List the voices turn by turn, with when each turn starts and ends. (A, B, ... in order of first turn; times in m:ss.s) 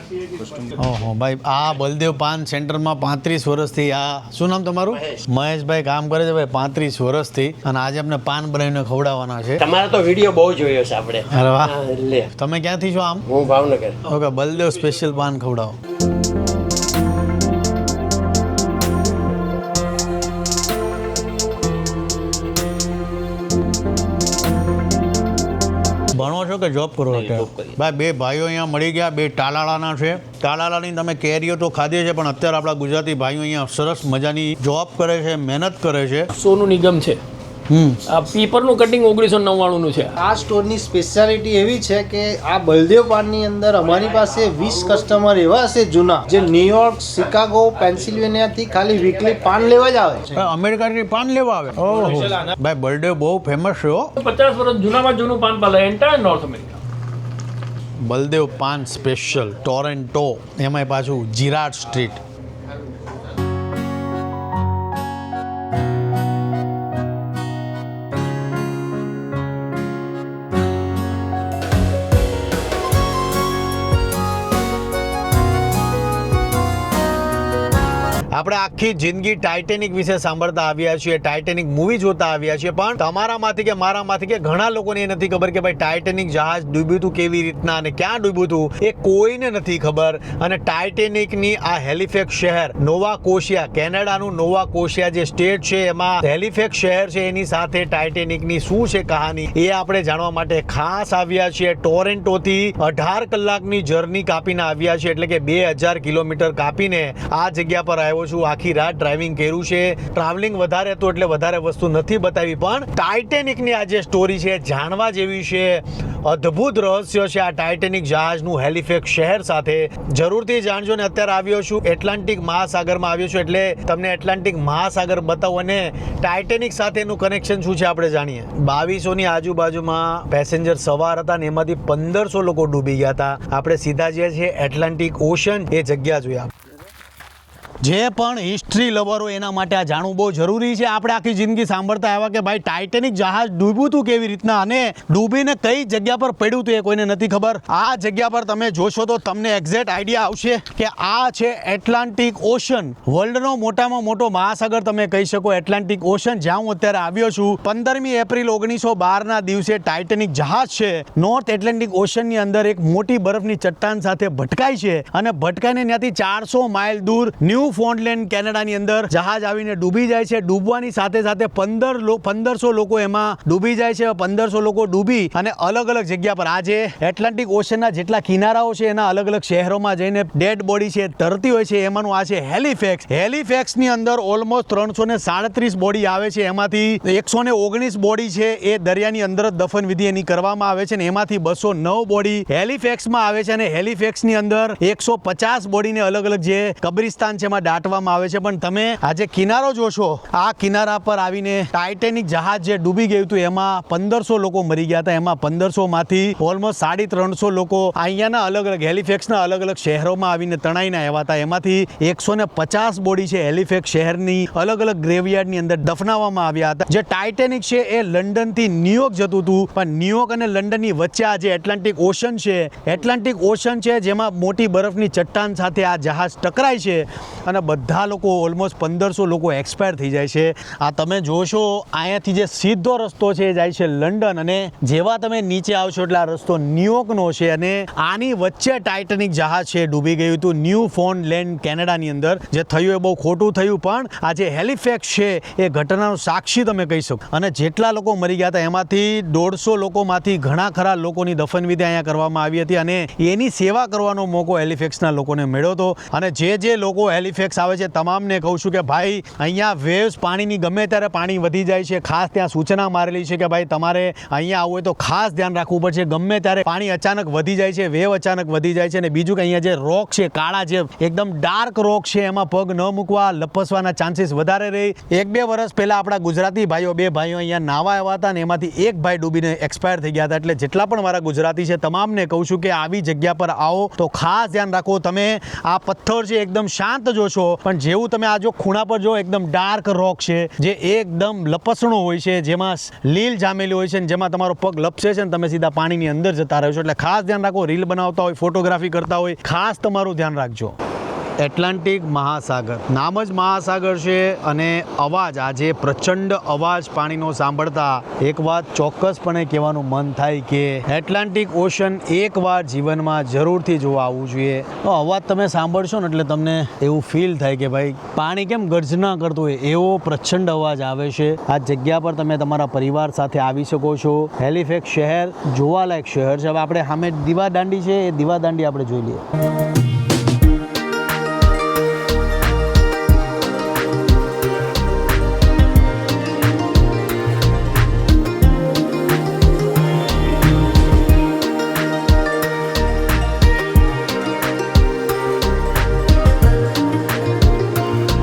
0:00.8-0:09.6 A
0:09.6-0:12.3 B
0:11.3-0:11.8 A
0:12.3-0:13.3 A
0:13.3-0:14.0 B
0:14.0-0:15.8 A
0:26.1-0:36.3 A
0:27.1-0:27.7 B
0:36.4-0:37.2 C
0:37.7-0:38.0 A
0:38.1-0:40.1 C
0:40.2-0:50.4 D
0:50.4-0:54.1 A
0:54.2-0:56.8 C
0:58.0-1:02.2 A
1:18.3-2:16.5 A
2:17.8-5:00.8 A
5:01.4-5:29.2 A